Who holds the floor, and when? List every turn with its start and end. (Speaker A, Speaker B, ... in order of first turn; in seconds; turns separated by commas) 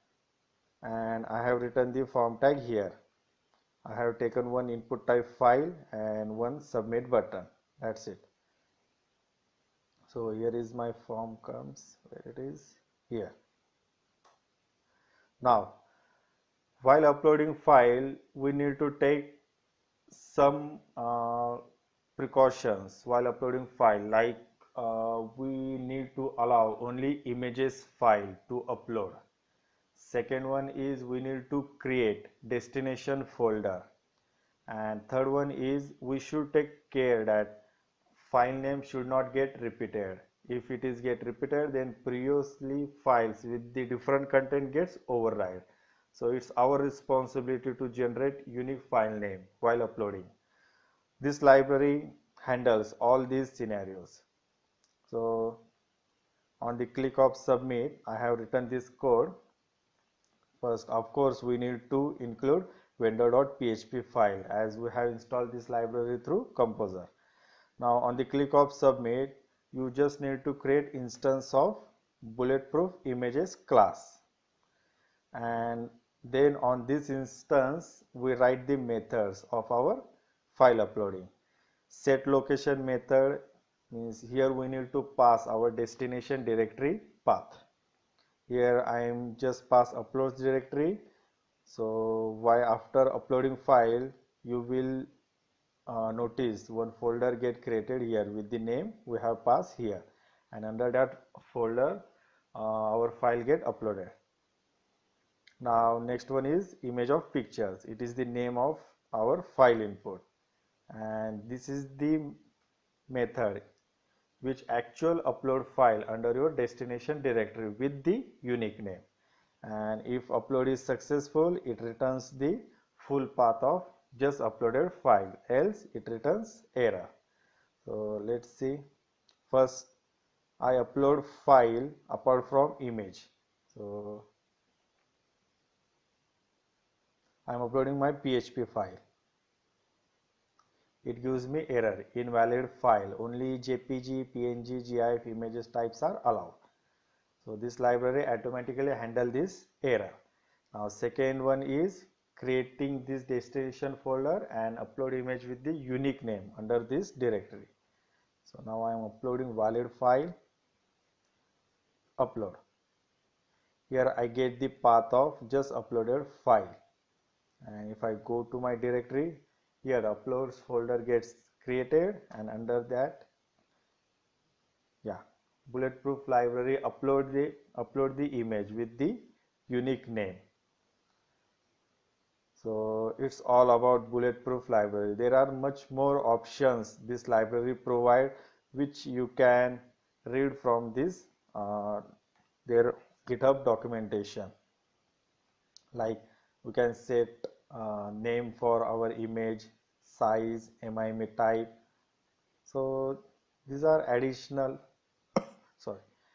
Speaker A: 0.8-3.0, Speaker A: 3.9-8.3, Speaker A: 10.1-13.3, Speaker A: 15.4-15.8, Speaker A: 16.8-19.4, Speaker A: 20.1-21.6, Speaker A: 22.2-29.2, Speaker A: 29.9-33.9, Speaker A: 34.7-37.6, Speaker A: 38.2-50.3, Speaker A: 51.2-54.2, Speaker A: 55.1-55.6, Speaker A: 56.6-59.4, Speaker A: 60.6-67.1, Speaker A: 67.8-74.2, Speaker A: 75.3-81.3, Speaker A: 81.9-87.6, Speaker A: 88.5-91.0, Speaker A: 91.7-95.1, Speaker A: 95.9-102.0, Speaker A: 102.5-104.2, Speaker A: 105.6-110.2, Speaker A: 110.9-112.4, Speaker A: 113.1-113.6, Speaker A: 114.4-119.1, Speaker A: 119.6-127.1, Speaker A: 127.8-128.8, Speaker A: 129.5-129.9, Speaker A: 130.6-134.3, Speaker A: 137.5-139.0, Speaker A: 141.0-146.6, Speaker A: 147.4-150.2, Speaker A: 150.7-157.7, Speaker A: 158.4-160.3, Speaker A: 162.2-162.6, Speaker A: 163.9-166.8, Speaker A: 167.6-173.3, Speaker A: 175.0-180.4, Speaker A: 182.6-192.0, Speaker A: 192.7-194.5, Speaker A: 195.9-201.7, Speaker A: 202.7-204.8, Speaker A: 205.8-206.0